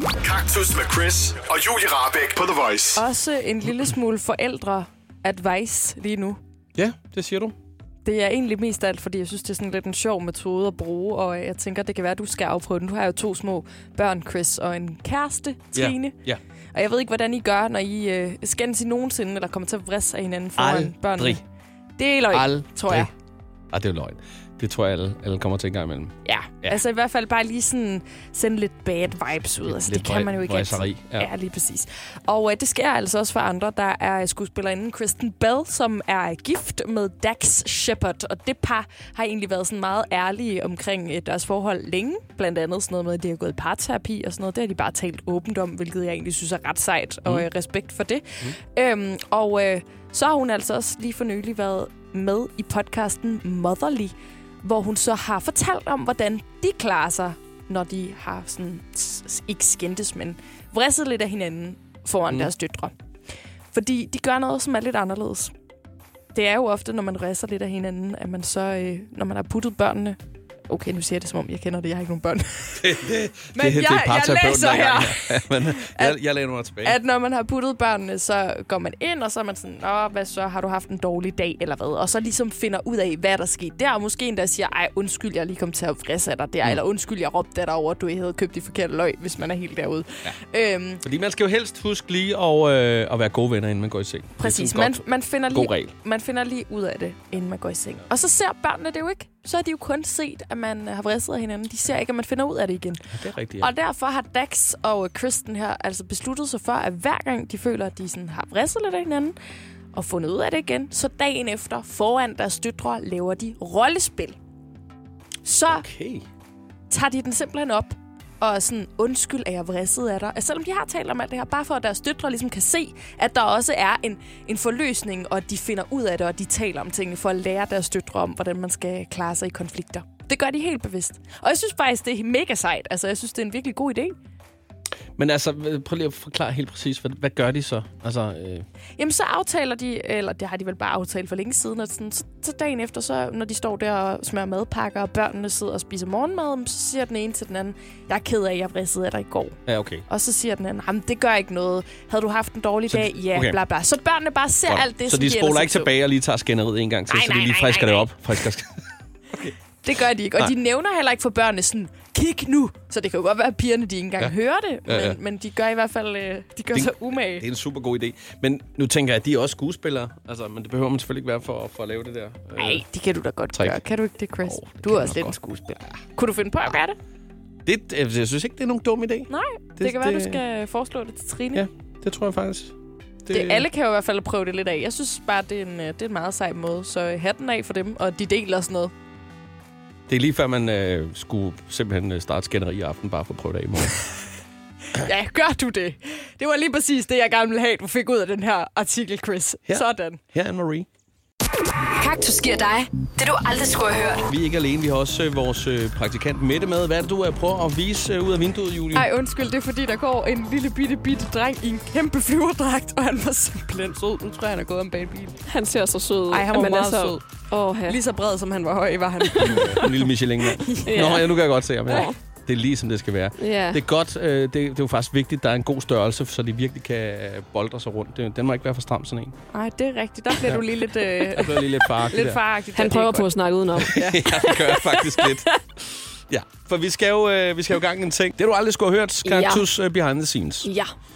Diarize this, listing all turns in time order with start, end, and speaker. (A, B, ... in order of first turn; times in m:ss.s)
0:00.2-0:03.0 A
0:02.9-0:06.4 B
0:06.8-0:07.5 C
0:08.0-0:16.1 B
0:15.7-0:16.4 C
0:16.7-0:21.4 B
0:20.6-0:21.4 C
0:22.0-0:23.1 B
0:22.3-0:23.1 C
0:23.7-0:26.8 C
0:26.2-1:02.9 B
0:29.6-0:31.3 C
1:03.7-1:05.5 B
1:06.3-1:10.2 B
1:10.7-1:13.0 B
1:12.8-1:17.0 C
1:13.5-1:16.2 B
1:16.8-1:31.0 B
1:31.0-1:35.9 C
1:34.4-1:43.0 B
1:43.1-1:43.7 C
1:43.6-1:49.3 B
1:49.9-1:54.4 B
1:55.4-1:55.8 B
1:55.7-1:56.2 C
1:56.9-2:14.1 B
2:15.2-2:18.6 C
2:19.0-2:35.9 B
2:29.6-2:30.0 C
2:32.9-2:33.6 C
2:34.7-2:39.5 C
2:37.1-2:38.2 B
2:39.8-2:47.4 B
2:44.9-2:45.2 C
2:46.7-2:52.8 C
2:52.6-2:57.0 B
2:54.4-2:55.4 C
2:57.6-3:00.4 C
2:59.3-3:01.6 B
3:01.5-3:02.7 C
3:03.2-3:03.7 C
3:03.3-3:08.9 B
3:10.1-3:14.0 C
3:15.0-3:20.2 B
3:19.7-3:20.9 C
3:21.9-3:24.2 D
3:24.3-3:29.1 C
3:28.9-3:35.4 B
3:35.5-3:38.0 E
3:36.3-3:37.3 B
3:37.8-3:39.8 B
3:39.3-3:40.1 E
3:39.4-3:49.4 C
3:40.5-3:41.3 B
3:40.8-3:41.3 E
3:41.8-3:42.2 E
3:43.4-3:43.8 E
3:49.5-3:54.6 B
3:50.4-3:52.4 C
3:52.7-3:55.6 E
3:53.8-4:00.7 C
3:59.2-3:59.7 E
4:00.6-4:00.9 E